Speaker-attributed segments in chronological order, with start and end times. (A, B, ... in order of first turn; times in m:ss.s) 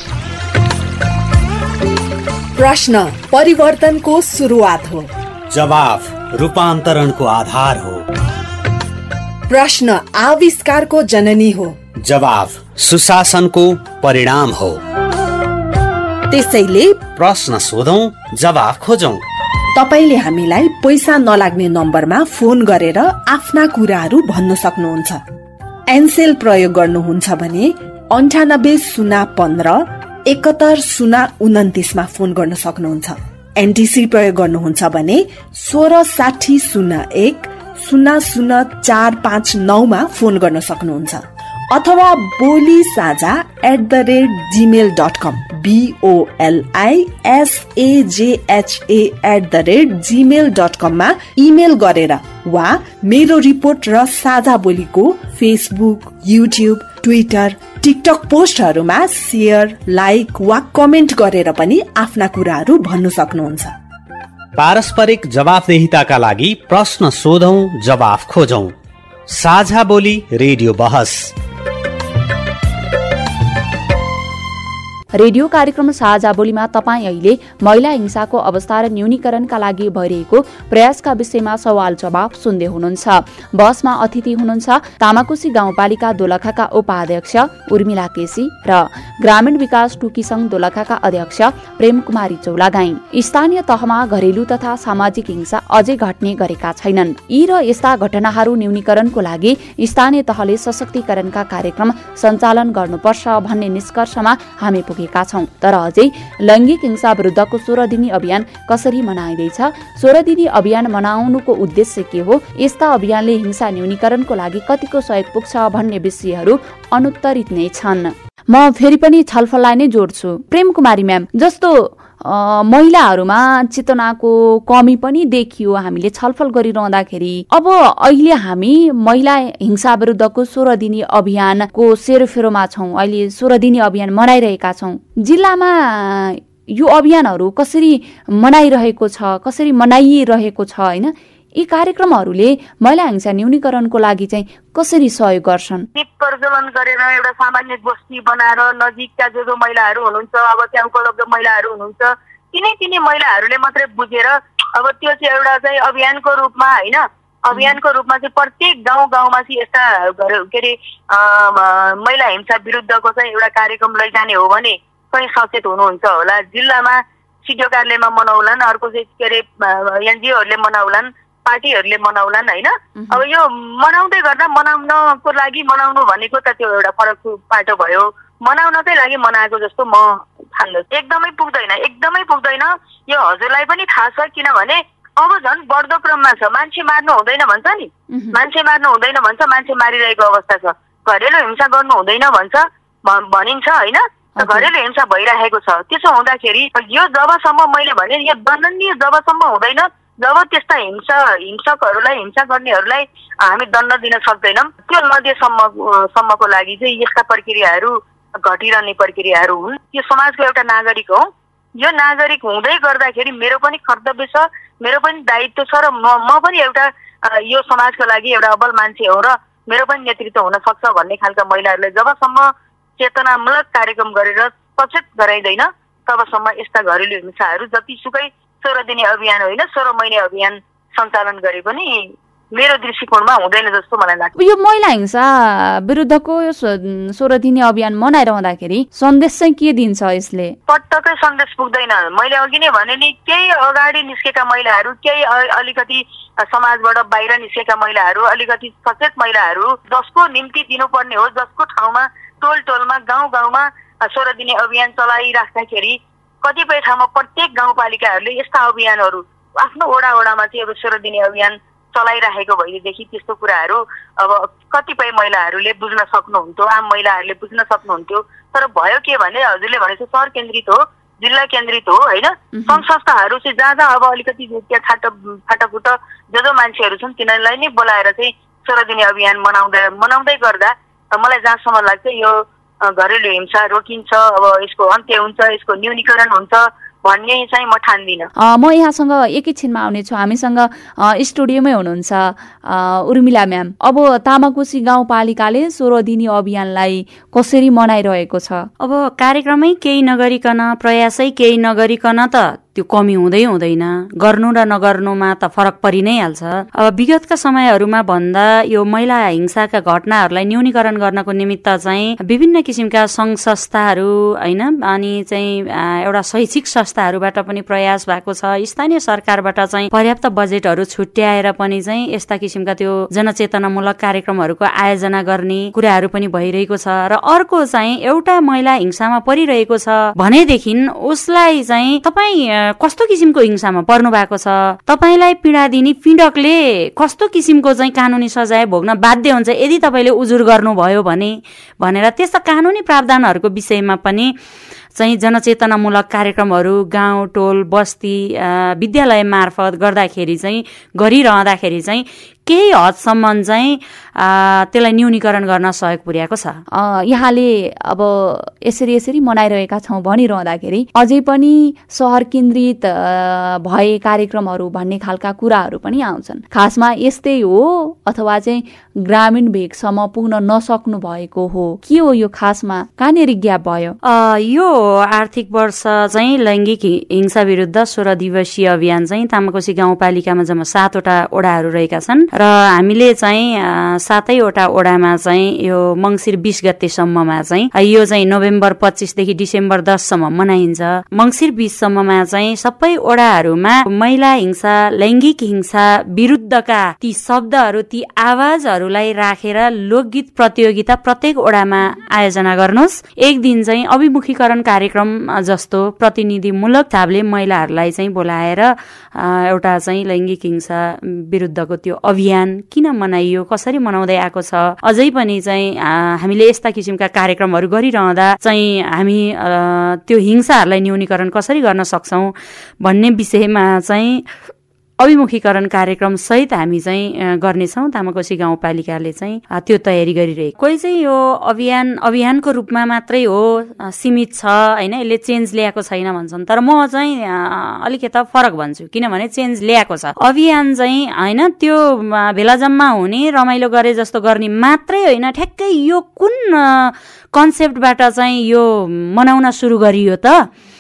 0:02.6-0:05.1 A
0:05.5-0:08.0 B
0:09.5-0:11.8 A
0:11.9-0:14.8 B
0:16.3-0:17.1 A
0:17.0-0:19.2 B
0:19.8-0:25.2 A
0:25.9-1:03.7 A
1:04.6-1:08.7 B
1:09.3-1:11.3 B
1:15.2-2:25.9 C
2:26.0-3:31.3 D
2:53.0-2:53.2 C
3:08.1-3:08.4 C
3:14.4-3:14.7 C
3:31.8-3:54.3 D
3:54.4-4:00.6 C
4:00.7-4:48.3 D
4:32.5-4:32.8 C
4:48.4-4:58.7 C
4:58.8-5:44.3 E
5:45.0-5:56.6 E
5:56.7-6:14.0 C
6:14.0-7:04.3 E
7:05.0-7:30.5 E